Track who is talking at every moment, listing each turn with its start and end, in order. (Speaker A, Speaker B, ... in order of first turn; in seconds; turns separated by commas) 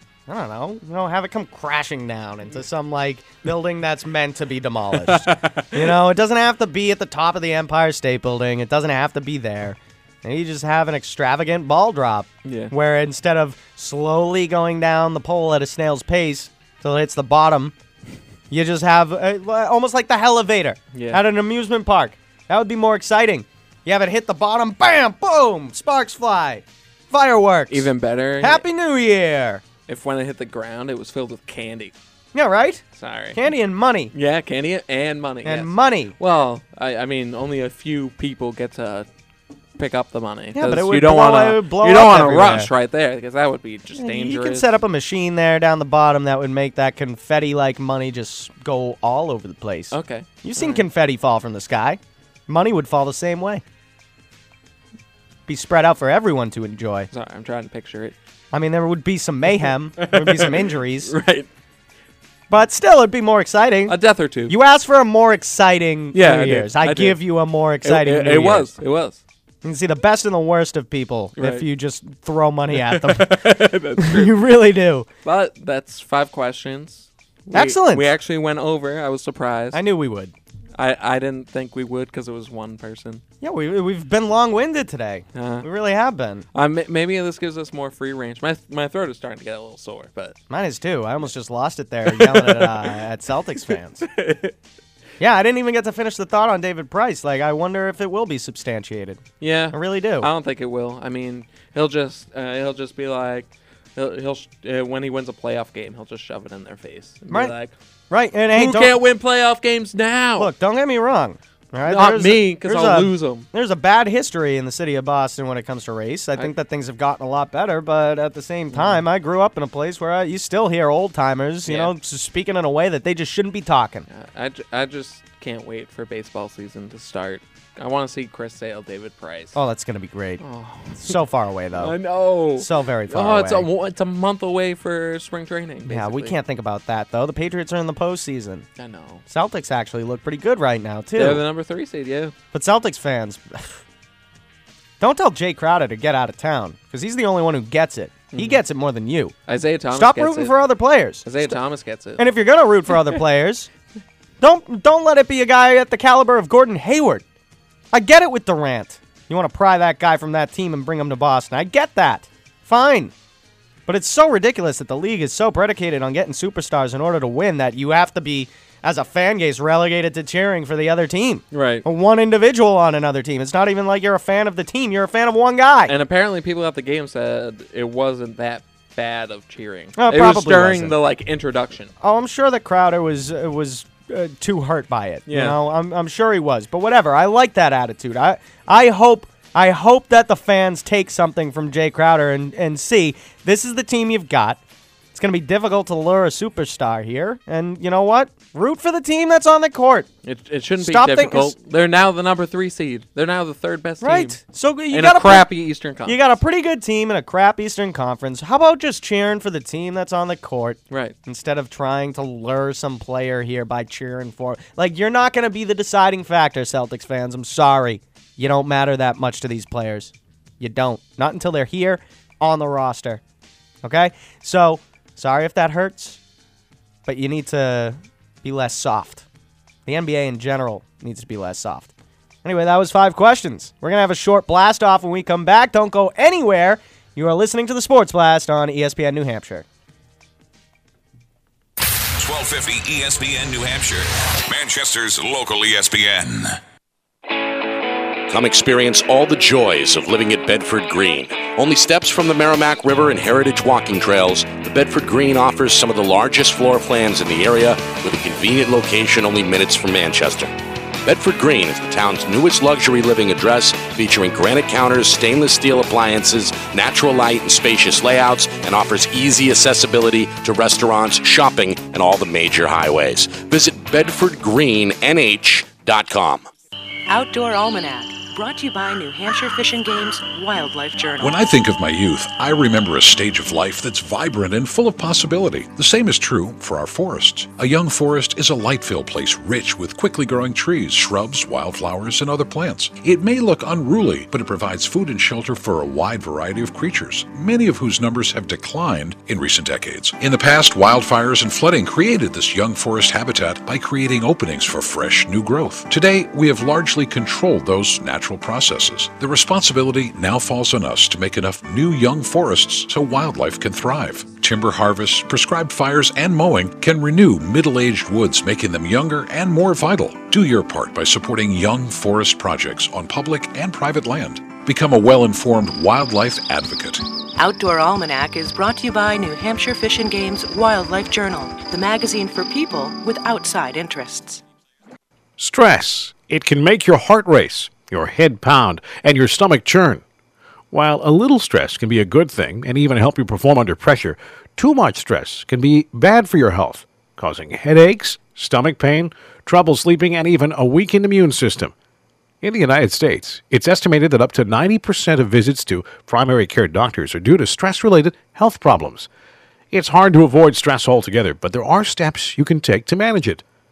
Speaker A: 0.3-17.7, Speaker B: 5.0-5.9, Speaker B: 12.4-12.7, Speaker A: 18.5-27.9, Speaker B: 20.9-21.2, Speaker B: 27.7-28.6, Speaker A: 28.4-29.6, Speaker B: 29.9-31.9, Speaker A: 32.3-32.8, Speaker B: 32.9-33.5, Speaker A: 33.3-34.1, Speaker B: 34.1-39.1, Speaker A: 35.4-36.1, Speaker B: 39.8-44.7, Speaker A: 40.5-42.7, Speaker A: 44.0-53.6, Speaker B: 49.9-50.8, Speaker A: 55.5-57.1, Speaker B: 57.1-58.1, Speaker A: 58.5-61.1, Speaker B: 60.0-61.5, Speaker A: 62.5-63.9, Speaker B: 63.9-64.5, Speaker A: 64.5-68.7, Speaker B: 66.1-67.2, Speaker B: 67.8-69.2, Speaker A: 69.6-73.4, Speaker B: 71.4-71.6, Speaker B: 72.7-74.4, Speaker A: 74.0-75.1, Speaker B: 75.2-79.8, Speaker A: 77.5-78.1, Speaker A: 79.7-80.3, Speaker B: 80.8-83.2, Speaker A: 83.4-86.5, Speaker B: 85.3-85.7, Speaker B: 86.5-90.3, Speaker A: 90.5-94.1, Speaker B: 92.1-92.9, Speaker B: 94.1-94.5, Speaker A: 95.2-100.3, Speaker B: 99.4-107.7, Speaker A: 108.1-108.9, Speaker B: 108.5-110.5, Speaker A: 110.4-124.0, Speaker B: 111.9-113.5, Speaker B: 118.7-119.0, Speaker B: 121.7-121.9, Speaker B: 124.1-129.6, Speaker A: 129.5-130.4, Speaker B: 130.4-131.2, Speaker A: 130.9-131.9, Speaker B: 131.8-136.3, Speaker A: 132.6-133.7, Speaker A: 135.8-138.7, Speaker B: 138.8-139.2, Speaker A: 139.3-141.4, Speaker B: 141.2-142.3, Speaker A: 142.5-143.8, Speaker A: 145.0-149.3, Speaker B: 148.3-148.6, Speaker B: 149.5-150.5, Speaker A: 149.9-151.6, Speaker B: 151.2-152.2, Speaker A: 152.2-153.7, Speaker A: 154.4-157.2, Speaker A: 157.9-163.1, Speaker A: 163.9-175.9, Speaker B: 171.5-171.8, Speaker B: 175.9-181.9, Speaker A: 180.0-180.9, Speaker A: 182.0-194.6, Speaker B: 185.3-185.6, Speaker A: 195.1-200.1, Speaker B: 200.2-204.4, Speaker A: 200.8-201.5, Speaker A: 204.0-205.5, Speaker B: 204.9-206.3, Speaker A: 206.0-223.2, Speaker B: 210.9-211.2, Speaker A: 223.8-226.2, Speaker A: 227.1-229.2, Speaker A: 229.8-231.9, Speaker A: 232.4-239.7, Speaker C: 242.2-246.5, Speaker D: 248.3-260.5, Speaker D: 261.0-276.5, Speaker E: 277.1-281.4, Speaker F: 281.2-327.1, Speaker E: 327.4-334.4, Speaker G: 335.4-340.0, Speaker G: 340.7-351.7, Speaker G: 352.4-359.1, Speaker G: 359.7-363.4